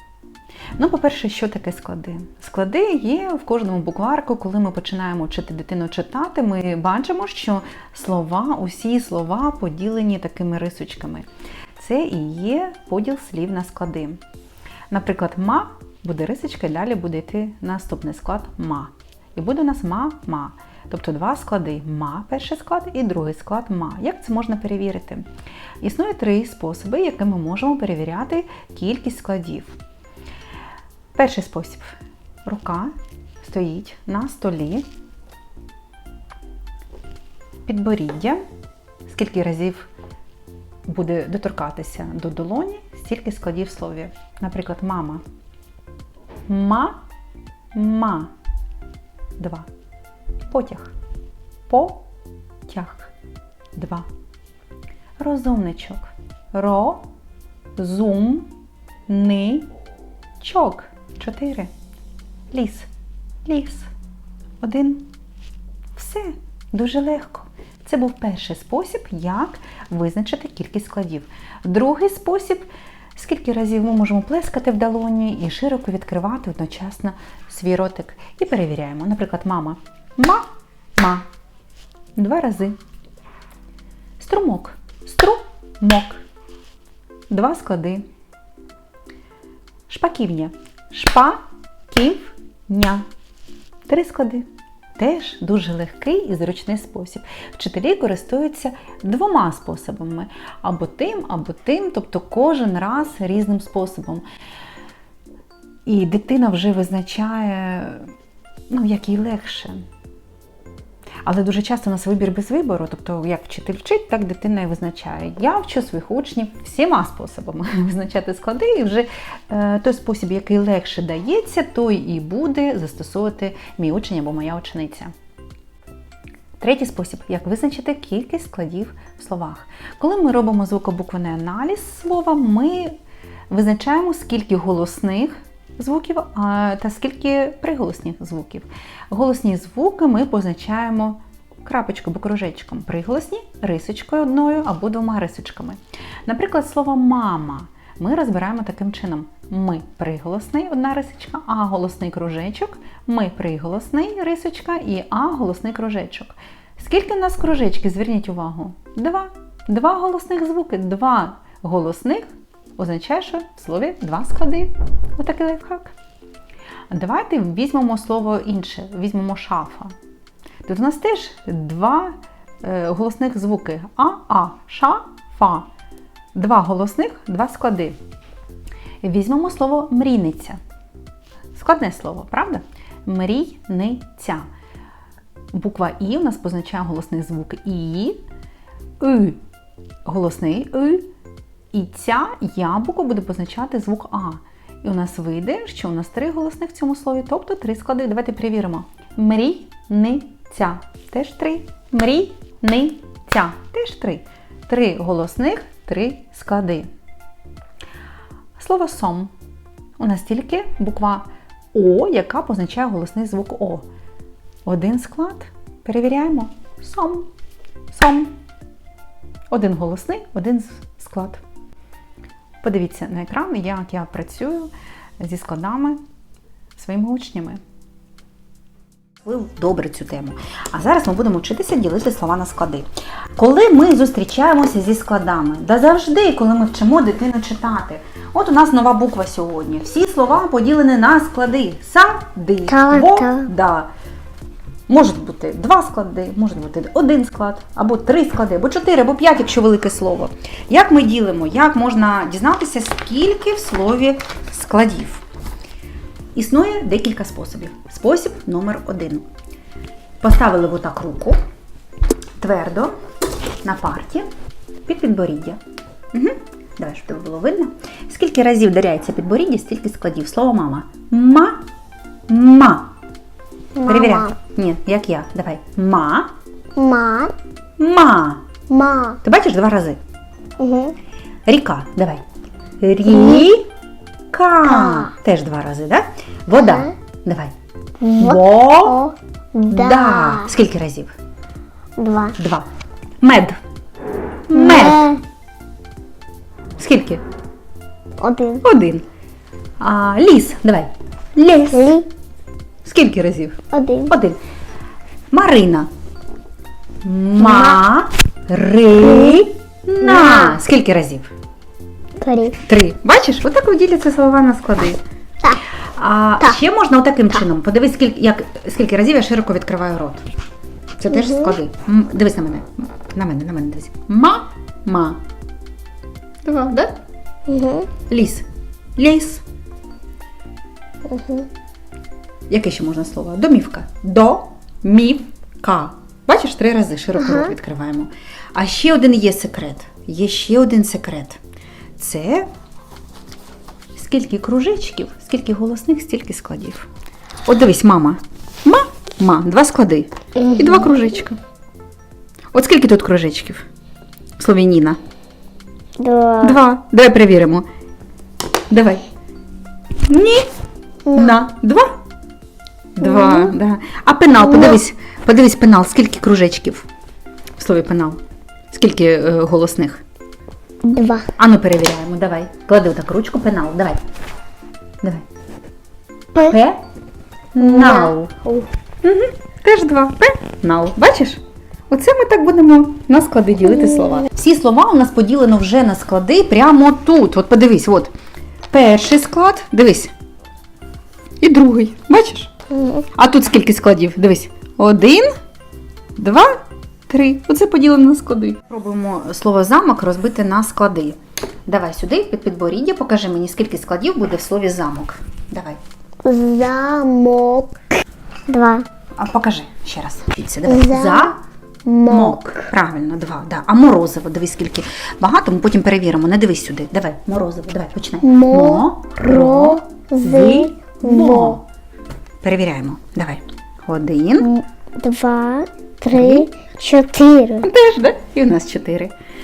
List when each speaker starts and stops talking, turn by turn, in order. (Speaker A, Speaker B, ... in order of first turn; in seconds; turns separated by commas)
Speaker A: 0.8-11.3, Speaker A: 11.8-14.2, Speaker A: 14.9-25.3, Speaker A: 25.8-29.8, Speaker A: 31.1-34.9, Speaker A: 37.7-38.4, Speaker A: 39.1-39.9, Speaker A: 40.9-45.2, Speaker A: 46.5-47.0, Speaker A: 47.7-48.3, Speaker A: 49.4-49.7, Speaker A: 50.5-50.9, Speaker A: 51.7-52.1, Speaker A: 52.7-53.1, Speaker A: 53.8-54.1, Speaker A: 55.2-57.1, Speaker A: 57.8-58.5, Speaker A: 59.1-59.7, Speaker A: 60.4-61.7, Speaker A: 62.5-62.9, Speaker A: 63.5-63.9, Speaker A: 64.6-65.1, Speaker A: 66.0-80.5, Speaker A: 81.0-81.3, Speaker A: 82.2-82.8, Speaker A: 84.2-86.2, Speaker A: 87.3-88.1, Speaker A: 89.9-93.0, Speaker A: 93.9-104.2, Speaker A: 105.9-108.1, Speaker A: 108.7-109.8, Speaker A: 111.2-125.1, Speaker A: 126.6-132.9, Speaker A: 133.5-165.9, Speaker A: 166.9-169.9, Speaker A: 170.7-175.7, Speaker A: 176.3-178.0, Speaker A: 179.0-180.6, Speaker A: 181.5-184.5, Speaker A: 185.5-188.2, Speaker A: 189.0-189.4, Speaker A: 190.1-191.1, Speaker A: 191.7-206.9, Speaker A: 208.6-209.3, Speaker A: 210.0-213.9, Speaker A: 214.7-217.3, Speaker A: 217.9-218.3, Speaker A: 219.5-221.4, Speaker A: 222.6-226.0, Speaker A: 226.8-227.6, Speaker A: 229.2-243.9, Speaker B: 242.7-243.5, Speaker A: 244.9-255.2, Speaker A: 256.4-259.3, Speaker A: 260.2-261.4, Speaker A: 262.4-262.9, Speaker A: 263.6-264.3, Speaker A: 264.9-265.6, Speaker A: 266.1-271.6, Speaker A: 272.3-272.9, Speaker B: 273.8-274.3, Speaker A: 273.9-276.3, Speaker B: 276.8-277.3, Speaker A: 277.8-278.5, Speaker B: 278.7-279.2, Speaker A: 279.2-280.0, Speaker B: 280.6-280.9, Speaker A: 281.5-282.2, Speaker A: 282.8-283.7, Speaker B: 283.1-283.4, Speaker A: 284.3-287.5, Speaker B: 284.7-285.1, Speaker B: 286.6-286.9, Speaker B: 288.0-290.5, Speaker A: 288.2-289.0, Speaker A: 289.7-291.1, Speaker B: 292.0-292.4, Speaker A: 292.4-292.7, Speaker A: 293.2-293.6, Speaker A: 294.5-295.1, Speaker B: 294.5-295.2, Speaker A: 296.8-297.2, Speaker B: 298.2-298.6, Speaker A: 298.6-299.0, Speaker A: 299.8-302.0, Speaker B: 301.7-302.1, Speaker A: 302.8-304.4, Speaker B: 303.7-304.1, Speaker A: 305.3-305.9, Speaker A: 307.0-311.3, Speaker B: 307.4-307.8, Speaker B: 309.0-309.4, Speaker B: 310.0-310.6, Speaker B: 312.2-312.6, Speaker A: 312.6-315.0, Speaker A: 316.0-320.3, Speaker A: 321.0-325.2, Speaker B: 321.1-321.6, Speaker A: 326.4-326.9, Speaker B: 327.5-327.9, Speaker A: 328.1-329.4, Speaker B: 331.1-331.5, Speaker A: 332.5-341.4, Speaker B: 337.2-337.5, Speaker A: 342.0-342.5, Speaker A: 343.9-346.9, Speaker A: 347.5-351.4, Speaker B: 350.4-350.9, Speaker A: 352.5-353.7, Speaker A: 354.4-355.0, Speaker B: 356.0-356.6, Speaker A: 356.4-357.7, Speaker A: 358.7-359.1, Speaker A: 360.1-360.5, Speaker B: 361.1-361.4, Speaker A: 361.1-361.9, Speaker A: 363.0-366.9, Speaker B: 363.1-363.5, Speaker B: 364.4-364.7, Speaker A: 367.6-368.2, Speaker A: 368.7-370.0, Speaker B: 370.8-371.3, Speaker A: 371.4-374.0, Speaker A: 376.4-376.8, Speaker A: 377.5-378.3, Speaker B: 377.6-378.7, Speaker A: 379.0-388.1, Speaker A: 388.7-390.1, Speaker A: 391.4-392.5, Speaker B: 392.7-393.1, Speaker A: 393.1-395.3, Speaker A: 396.2-396.6, Speaker A: 397.1-405.8, Speaker B: 406.2-407.8, Speaker B: 408.5-408.9, Speaker A: 409.2-411.4, Speaker B: 410.6-412.7, Speaker A: 412.1-421.6, Speaker B: 418.2-421.6, Speaker A: 422.4-424.5, Speaker B: 424.4-427.7, Speaker A: 426.1-426.5, Speaker A: 427.6-429.1